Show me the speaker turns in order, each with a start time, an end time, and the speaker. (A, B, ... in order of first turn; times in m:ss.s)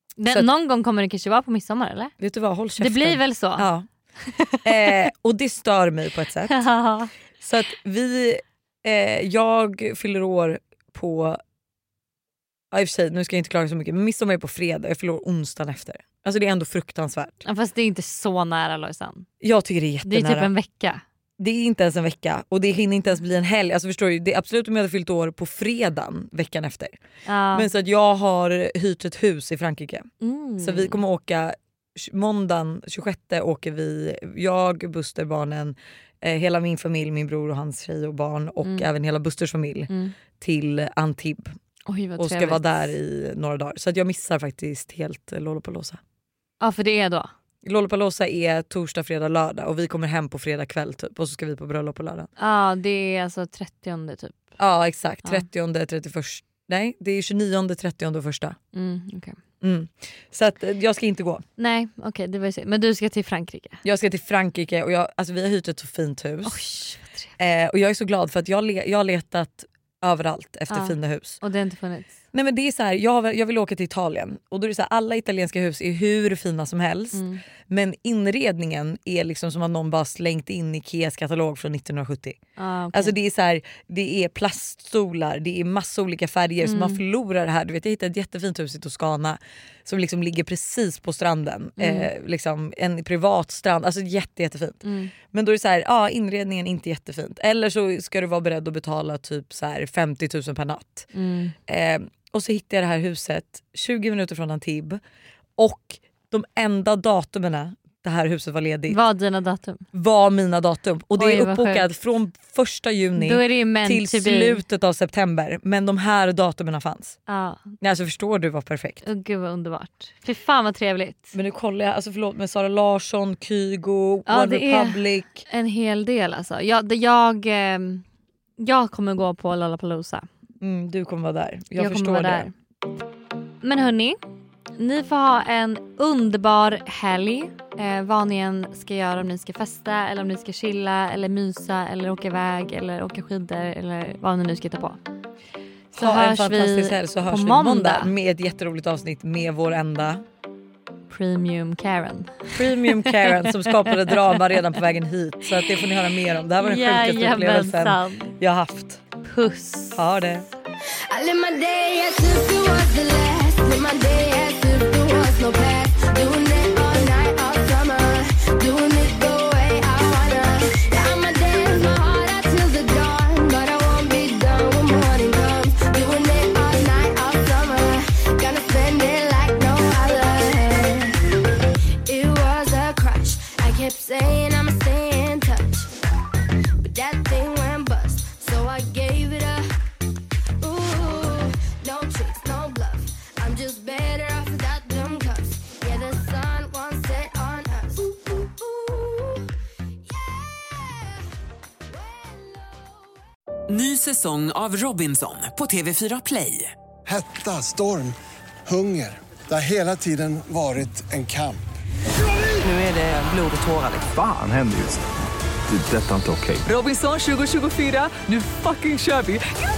0:00.2-0:02.1 A
0:02.2-0:03.8 B
0:02.8-0:03.7 A
0:04.2-0:05.0 A
0:04.6-0:06.6 B
0:06.5-0:07.1 A
0:07.4-0:11.4 B
0:12.7-0:17.4 B
0:17.4-0:19.2 A
0:19.4-0:20.5 B
0:20.0-0:21.0 A
0:21.4-0:26.9 B
0:27.2-0:27.7 A
0:27.5-0:30.1 B
0:30.2-0:31.0 A
0:30.6-0:41.5 B
0:38.6-0:38.9 A
0:39.9-0:40.1 A
0:41.9-0:42.8 A
0:42.2-0:46.0 B
0:46.6-0:47.3 A
0:47.6-0:52.3 B
0:52.4-0:54.4 A
0:54.6-0:58.6 B
0:58.7-0:59.4 A
0:59.6-1:01.4 B
1:01.6-1:03.8 A
1:03.8-1:06.6 B
1:06.4-1:07.3 A
1:07.4-1:11.4 B
1:10.7-1:12.1 A
1:12.3-1:22.4 B
1:17.1-1:17.4 A
1:22.6-1:23.1 A
1:22.9-1:41.1 B
1:26.6-1:27.0 A
1:31.8-1:32.1 A
1:34.8-1:35.1 A
1:41.1-1:41.5 A
1:41.7-1:45.0 B
1:45.6-1:49.0 B
1:48.9-1:49.8 A
1:49.9-1:57.2 B
1:51.1-1:51.8 A
1:53.2-1:54.6 A
1:57.3-1:57.6 A
1:57.8-1:59.0 B
1:59.0-2:01.3 A
2:01.3-2:05.4 B
2:04.3-2:08.0 A
2:08.6-2:10.2 A
2:10.6-2:12.5 B
2:11.8-2:12.5 A
2:13.6-2:14.2 A
2:14.8-2:25.0 A
2:25.9-2:30.2 B
2:25.9-2:28.1 A
2:31.1-2:34.4 A
2:32.5-2:39.0 B
2:36.6-2:38.3 A
2:39.2-2:40.0 A
2:39.9-2:40.5 B
2:41.1-3:05.9 C
3:06.8-3:09.7 C
3:10.6-3:21.2 C
3:22.0-3:22.6 C
3:23.7-3:26.7 D
3:27.0-3:31.6 E
3:32.6-3:34.1 D
3:34.1-3:35.0 F
3:35.7-3:36.7 F
3:36.6-3:39.4 D